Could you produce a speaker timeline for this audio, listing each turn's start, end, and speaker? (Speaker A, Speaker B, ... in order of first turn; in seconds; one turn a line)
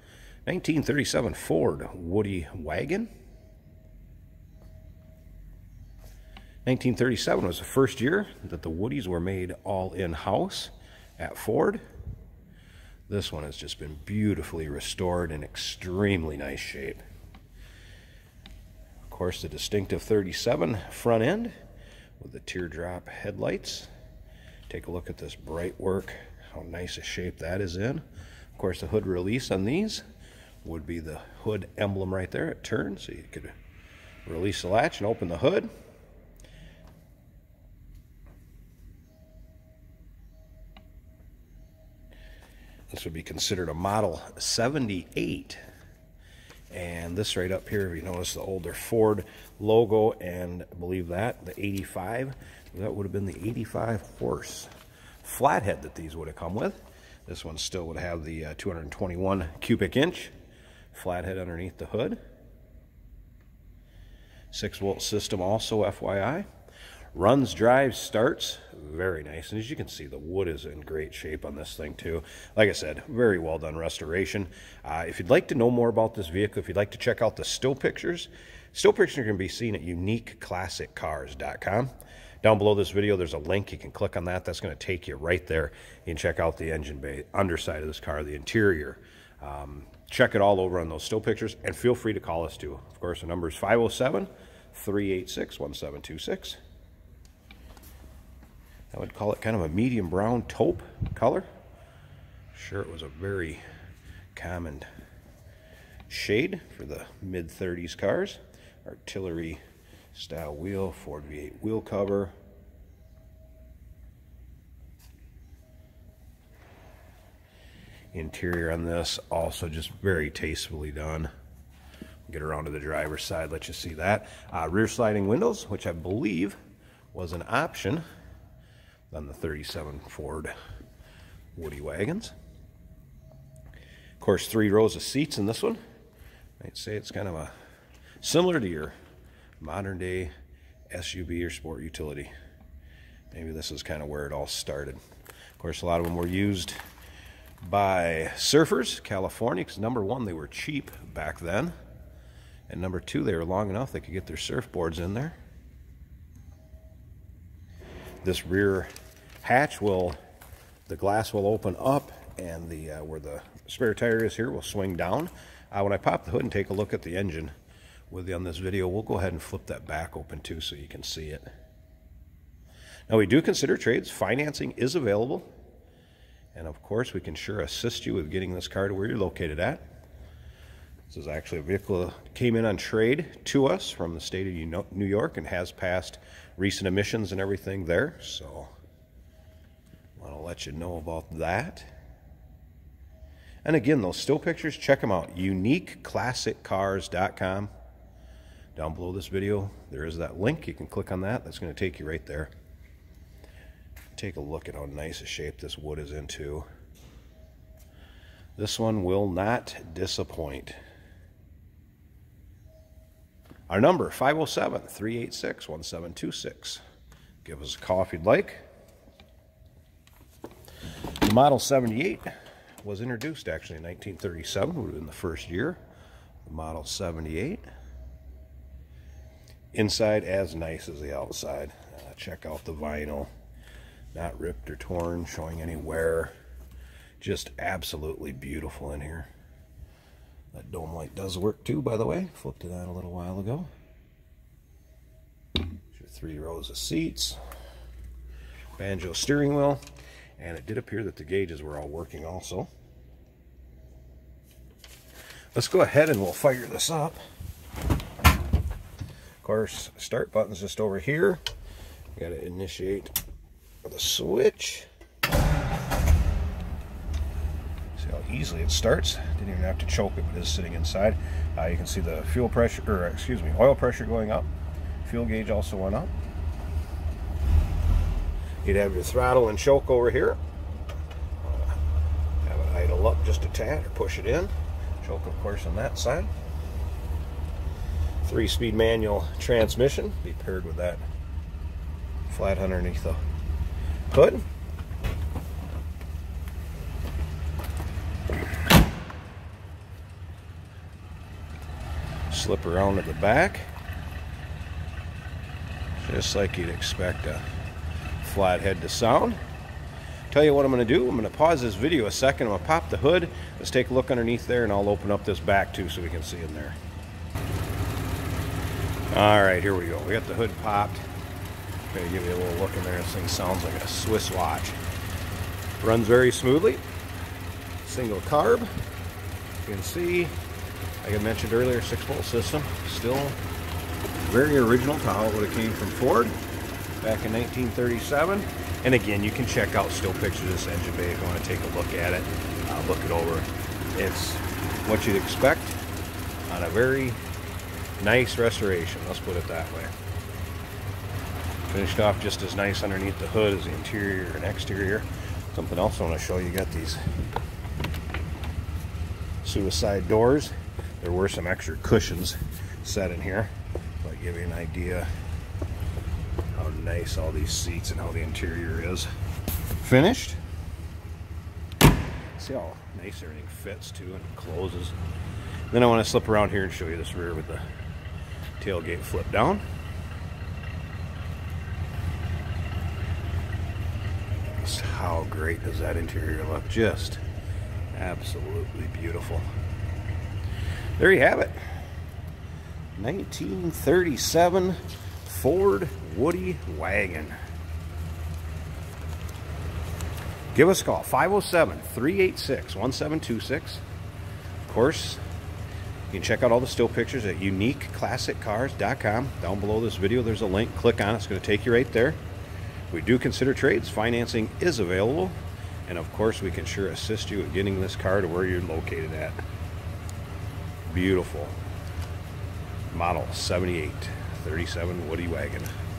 Speaker A: 0.5-3.1
Speaker A: 6.6-11.8
Speaker A: 13.1-17.0
Speaker A: 19.1-21.5
Speaker A: 22.2-23.9
Speaker A: 24.7-28.0
Speaker A: 28.6-30.0
Speaker A: 30.6-33.5
Speaker A: 34.2-35.7
Speaker A: 42.9-45.6
Speaker A: 46.7-54.7
Speaker A: 55.2-60.3
Speaker A: 60.9-62.2
Speaker A: 64.5-66.5
Speaker A: 67.1-81.9
Speaker A: 82.4-96.6
Speaker A: 98.9-101.5
Speaker A: 102.5-103.6
Speaker A: 104.3-104.9
Speaker A: 106.1-109.6
Speaker A: 110.1-112.3
Speaker A: 118.1-121.3
Speaker A: 122.3-126.6
Speaker A: 127.1-128.0
Speaker A: 129.1-130.5
Speaker A: 131.5-132.3
Speaker A: 134.2-135.8
Speaker A: 136.6-137.5
Speaker A: 138.2-138.9
Speaker A: 139.6-140.3
Speaker A: 140.9-142.3
Speaker A: 143.3-145.0
Speaker A: 145.6-146.8
Speaker A: 147.6-151.7
Speaker A: 152.7-155.4
Speaker A: 158.2-158.9
Speaker A: 159.4-160.2
Speaker A: 160.9-167.5
Speaker A: 168.1-171.5
Speaker A: 173.1-175.5
Speaker A: 176.5-179.8
Speaker A: 181.1-188.7
Speaker A: 190.2-191.9
Speaker A: 193.6-197.7
Speaker A: 198.8-202.5
Speaker A: 204.1-206.7
Speaker A: 208.6-210.8
Speaker A: 213.7-216.8
Speaker A: 217.4-218.6
Speaker A: 221.2-222.3
Speaker A: 222.8-225.8
Speaker A: 226.4-227.6
Speaker A: 229.7-233.3
Speaker A: 234.1-236.3
Speaker A: 237.2-239.3
Speaker A: 240.5-243.7
Speaker A: 245.9-247.4
Speaker A: 248.8-249.8
Speaker A: 250.4-252.7
Speaker A: 255.5-257.2
Speaker A: 259.4-261.4
Speaker A: 262.1-263.1
Speaker A: 263.8-264.9
Speaker A: 267.9-274.5
Speaker A: 275.0-276.1
Speaker A: 278.6-280.4
Speaker A: 281.4-281.8
Speaker A: 282.4-286.3
Speaker A: 288.2-291.0
Speaker A: 292.3-293.2
Speaker A: 294.1-294.5
Speaker A: 302.3-303.7
Speaker A: 306.0-307.4
Speaker A: 308.2-309.4
Speaker A: 310.3-316.8
Speaker A: 319.1-321.0
Speaker A: 321.9-324.8
Speaker A: 325.8-326.8
Speaker A: 327.8-328.7
Speaker A: 329.6-330.3
Speaker A: 331.0-333.4
Speaker A: 334.2-336.4
Speaker A: 337.0-345.8
Speaker A: 346.4-347.2
Speaker A: 348.0-349.9
Speaker A: 351.7-357.0
Speaker A: 359.4-363.5
Speaker A: 364.0-365.1
Speaker A: 366.5-369.1
Speaker A: 369.8-370.4
Speaker A: 372.4-374.9
Speaker A: 375.7-377.6
Speaker A: 378.6-379.6
Speaker A: 384.6-387.2
Speaker A: 387.9-389.5
Speaker A: 391.0-391.9
Speaker A: 392.9-397.4
Speaker A: 400.5-403.8
Speaker A: 404.6-405.2
Speaker A: 406.1-412.2
Speaker A: 412.9-419.4
Speaker A: 420.8-421.6
Speaker A: 422.9-425.7